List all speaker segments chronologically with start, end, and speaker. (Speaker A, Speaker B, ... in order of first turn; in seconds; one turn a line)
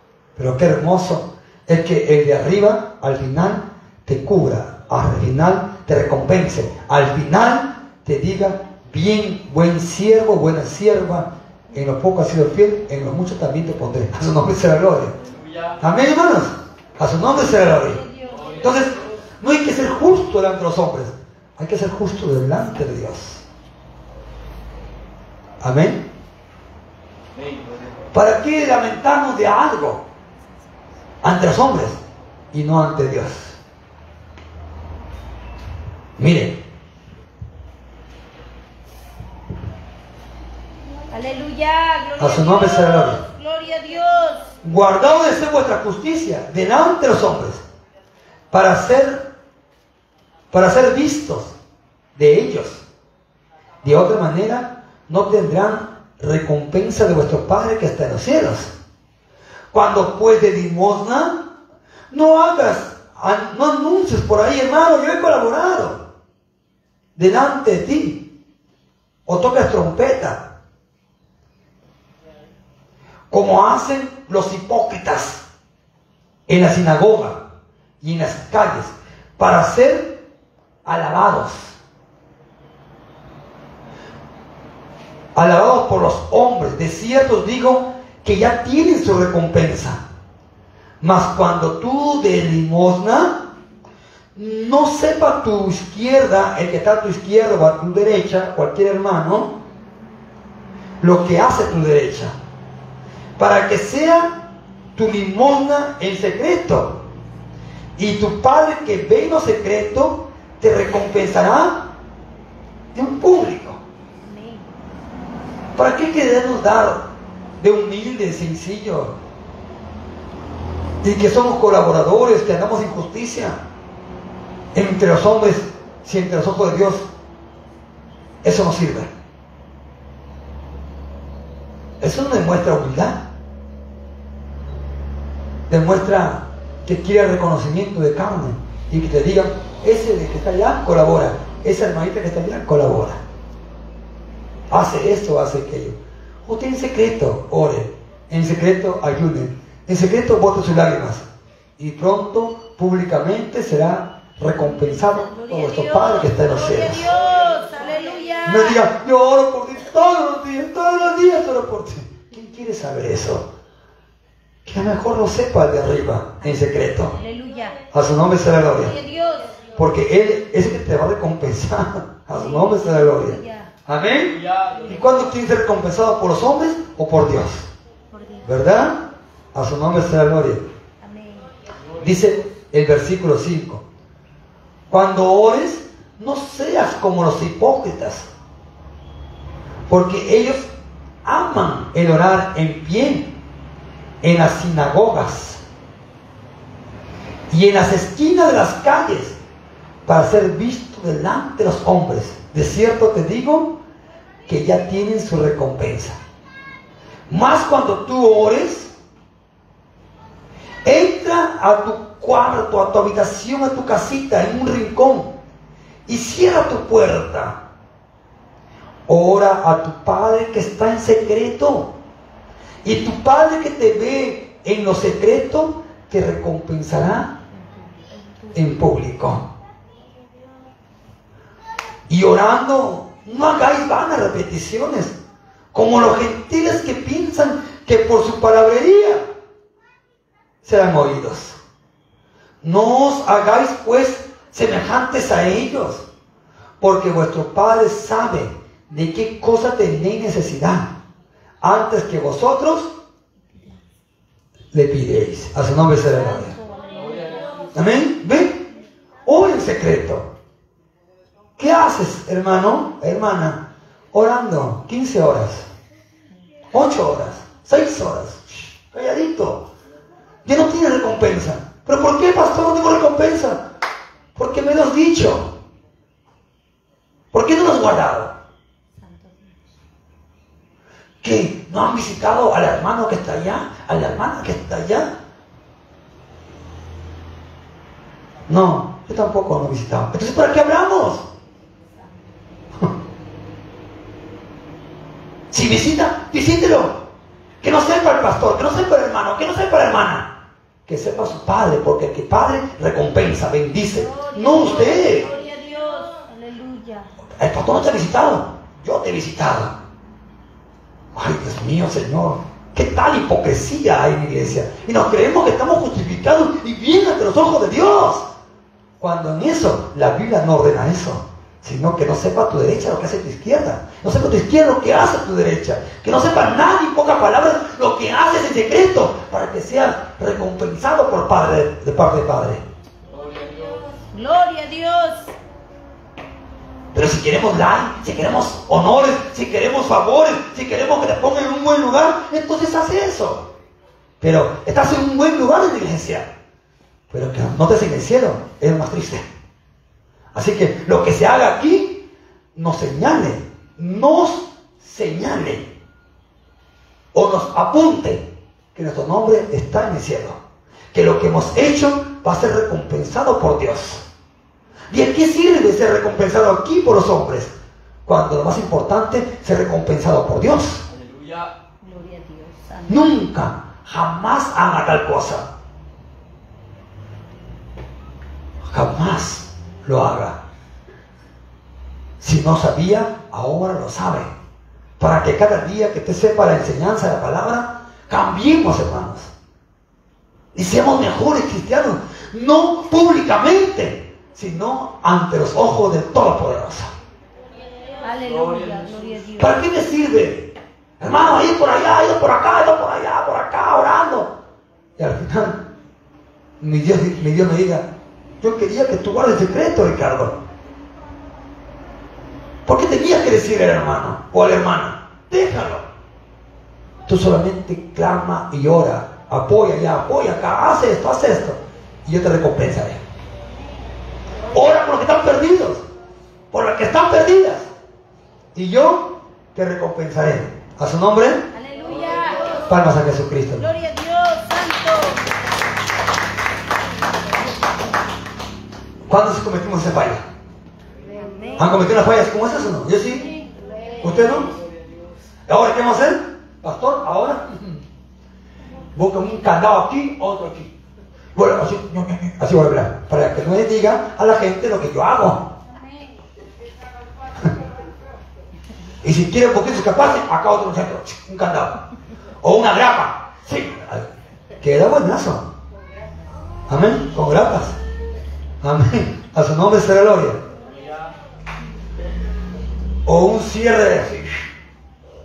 Speaker A: 0.3-15.2
Speaker B: 15.2-15.8
Speaker A: 15.8-18.0
Speaker C: 17.8-18.6
Speaker B: 18.3-19.2
Speaker A: 18.6-23.4
Speaker A: 25.6-26.0
Speaker B: 27.3-28.0
Speaker A: 28.1-30.0
Speaker A: 31.2-32.0
Speaker A: 32.5-33.6
Speaker A: 36.2-36.6
Speaker C: 41.1-44.5
Speaker A: 42.2-43.2
Speaker A: 44.6-47.6
Speaker A: 48.5-49.3
Speaker A: 50.5-51.5
Speaker A: 52.1-52.8
Speaker A: 53.8-58.7
Speaker A: 59.7-61.5
Speaker A: 62.1-66.0
Speaker A: 67.2-68.2
Speaker A: 69.2-70.5
Speaker A: 73.3-75.4
Speaker A: 76.5-77.4
Speaker A: 78.0-80.2
Speaker A: 80.8-81.8
Speaker A: 85.3-90.0
Speaker A: 91.0-93.5
Speaker A: 94.3-99.5
Speaker A: 101.0-102.3
Speaker A: 103.4-104.4
Speaker A: 105.0-107.0
Speaker A: 108.0-111.9
Speaker A: 112.9-113.8
Speaker C: 114.2-114.7
Speaker A: 115.8-117.1
Speaker A: 117.6-119.1
Speaker A: 121.0-123.6
Speaker A: 124.7-127.1
Speaker A: 128.4-129.1
Speaker A: 132.0-133.2
Speaker A: 135.7-143.2
Speaker A: 144.7-151.2
Speaker A: 151.8-157.1
Speaker C: 155.0-158.8
Speaker A: 158.4-163.5
Speaker A: 164.7-167.1
Speaker C: 167.0-167.8
Speaker A: 167.9-169.0
Speaker C: 168.8-169.6
Speaker A: 169.8-177.7
Speaker C: 172.4-173.7
Speaker B: 174.2-175.3
Speaker C: 178.1-178.4
Speaker A: 178.4-179.0
Speaker A: 179.5-180.7
Speaker C: 181.0-181.5
Speaker B: 181.9-182.3
Speaker A: 182.0-183.8
Speaker A: 184.9-188.3
Speaker A: 189.9-190.7
Speaker A: 191.2-193.3
Speaker A: 194.2-195.6
Speaker A: 197.5-199.4
Speaker A: 200.1-203.8
Speaker A: 204.5-206.2
Speaker A: 207.3-208.9
Speaker A: 210.8-215.3
Speaker A: 216.1-217.6
Speaker A: 219.1-221.9
Speaker A: 222.8-227.3
Speaker A: 228.5-229.4
Speaker A: 232.1-235.2
Speaker A: 235.7-239.2
Speaker A: 240.6-241.6
Speaker A: 242.6-246.0
Speaker A: 246.8-250.9
Speaker A: 251.6-252.9
Speaker A: 254.7-256.6
Speaker C: 256.2-257.6
Speaker B: 256.9-257.7
Speaker A: 257.7-258.6
Speaker A: 259.2-260.3
Speaker A: 261.6-265.7
Speaker A: 266.7-269.6
Speaker A: 270.4-273.6
Speaker A: 274.4-275.5
Speaker A: 277.3-278.3
Speaker C: 279.0-279.6
Speaker A: 281.2-285.1
Speaker A: 288.5-291.2
Speaker A: 295.5-297.0
Speaker A: 297.6-300.3
Speaker A: 300.9-305.3
Speaker C: 304.0-307.1
Speaker A: 307.4-309.8
Speaker A: 311.1-318.3
Speaker A: 319.0-332.6
Speaker B: 333.1-334.0
Speaker C: 334.1-335.3
Speaker A: 336.9-343.4
Speaker A: 344.2-346.3
Speaker A: 347.1-349.2
Speaker A: 350.3-355.7
Speaker A: 357.1-360.4
Speaker A: 360.9-364.0
Speaker A: 364.9-367.5
Speaker A: 368.1-370.8
Speaker B: 370.9-371.6
Speaker C: 371.8-373.2
Speaker A: 372.9-375.5
Speaker A: 378.7-380.4
Speaker A: 382.2-384.3
Speaker A: 385.0-389.3
Speaker A: 390.5-396.9
Speaker C: 398.0-399.6
Speaker B: 398.2-399.2
Speaker A: 399.4-404.3
Speaker A: 405.0-405.6
Speaker A: 406.6-407.9
Speaker A: 408.4-410.3
Speaker A: 412.6-415.8
Speaker A: 417.1-423.0
Speaker A: 424.5-425.8
Speaker A: 426.5-427.7
Speaker A: 428.5-431.4
Speaker C: 431.5-432.7
Speaker A: 432.7-433.7
Speaker C: 433.6-435.3
Speaker A: 439.1-440.2
Speaker A: 441.6-443.3
Speaker A: 444.0-444.5
Speaker A: 445.5-447.8
Speaker A: 448.9-450.7
Speaker A: 451.3-455.4
Speaker A: 459.0-461.8
Speaker A: 462.4-465.4
Speaker A: 466.7-467.8
Speaker A: 468.6-470.4
Speaker B: 470.7-471.1
Speaker A: 473.0-474.4